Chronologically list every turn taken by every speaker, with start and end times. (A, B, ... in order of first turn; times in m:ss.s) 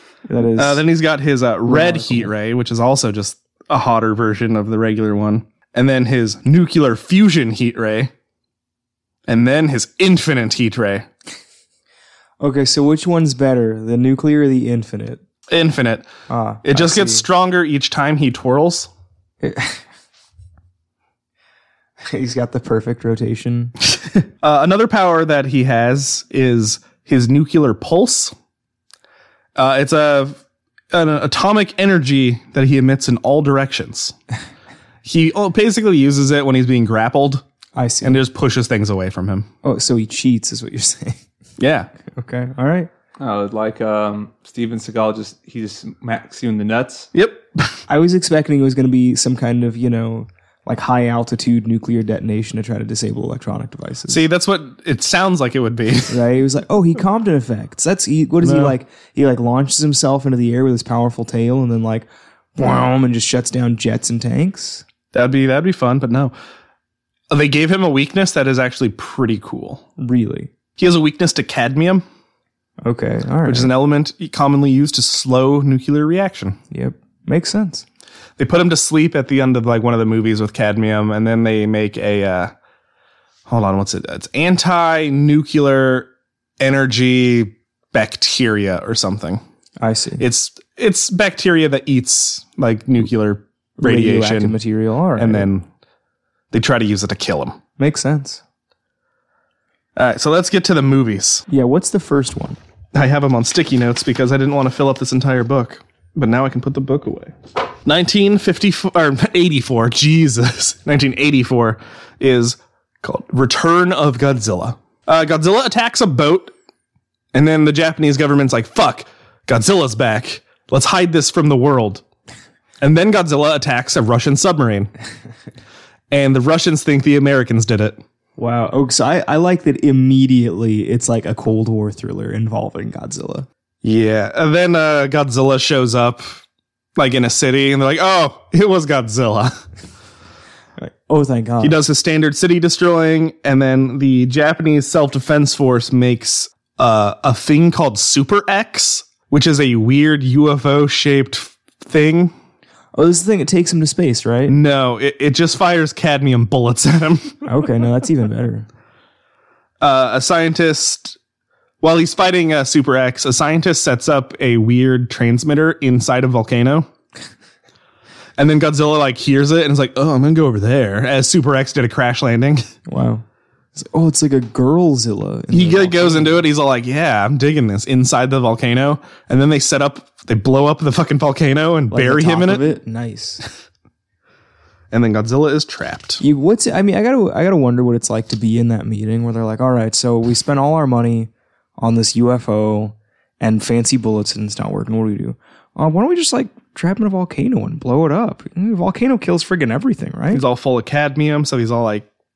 0:00.3-0:00.8 A
0:00.6-0:08.1 B
0:01.6-0:02.3 A
0:09.3-0:11.1 B
0:12.4-0:15.2 A
0:15.5-0:16.1 B
0:16.3-0:17.2 A
0:16.6-0:18.9 B
0:19.4-0:19.8 A
0:22.1-0:23.8 A
0:24.4-0:28.3 B
0:29.6-0:30.4 B
0:30.9-0:34.1 B
0:35.0-0:37.4 B
0:37.7-0:38.2 A
0:38.0-0:39.5 B
0:39.6-0:41.2 A
0:41.6-0:41.9 B
0:42.1-0:42.9 A
0:43.2-0:47.1 C
0:47.1-0:47.7 B
0:47.9-0:54.2 A
0:54.1-0:56.2 B
0:56.1-1:04.8 A
0:58.4-0:58.7 B
1:05.1-1:06.3 B
1:07.3-1:09.8 B
1:10.0-1:10.5 A
1:10.8-1:12.0 B
1:12.8-1:13.7 A
1:13.4-1:16.6 B
1:16.7-1:17.8 A
1:18.4-1:22.5 B
1:23.5-1:29.4 B
1:29.8-1:30.2 A
1:30.2-1:34.6 B
1:33.8-1:35.5 A
1:35.2-1:35.6 B
1:36.5-1:37.6 B
1:37.8-1:38.4 A
1:40.0-1:41.4 B
1:41.5-1:42.6 A
1:42.9-1:47.3 B
1:47.8-1:56.5 B
1:57.3-2:02.0 B
2:02.8-2:04.9 B
2:06.1-2:08.0 B
2:08.4-2:13.5 A
2:13.8-2:16.4 B
2:17.0-2:19.6 B
2:20.8-2:21.8 A
2:21.6-2:32.3 B
2:32.9-2:34.6 A
2:34.5-2:37.3 B
2:37.4-2:38.7 A
2:39.8-2:41.2 B
2:41.8-2:46.9 B
2:48.4-2:52.7 B
2:52.9-2:53.2 A
2:53.7-2:56.4 A
2:55.5-3:02.7 B
3:01.9-3:03.4 A
3:04.9-3:06.2 B
3:06.2-3:20.4 A
3:20.3-3:22.1 B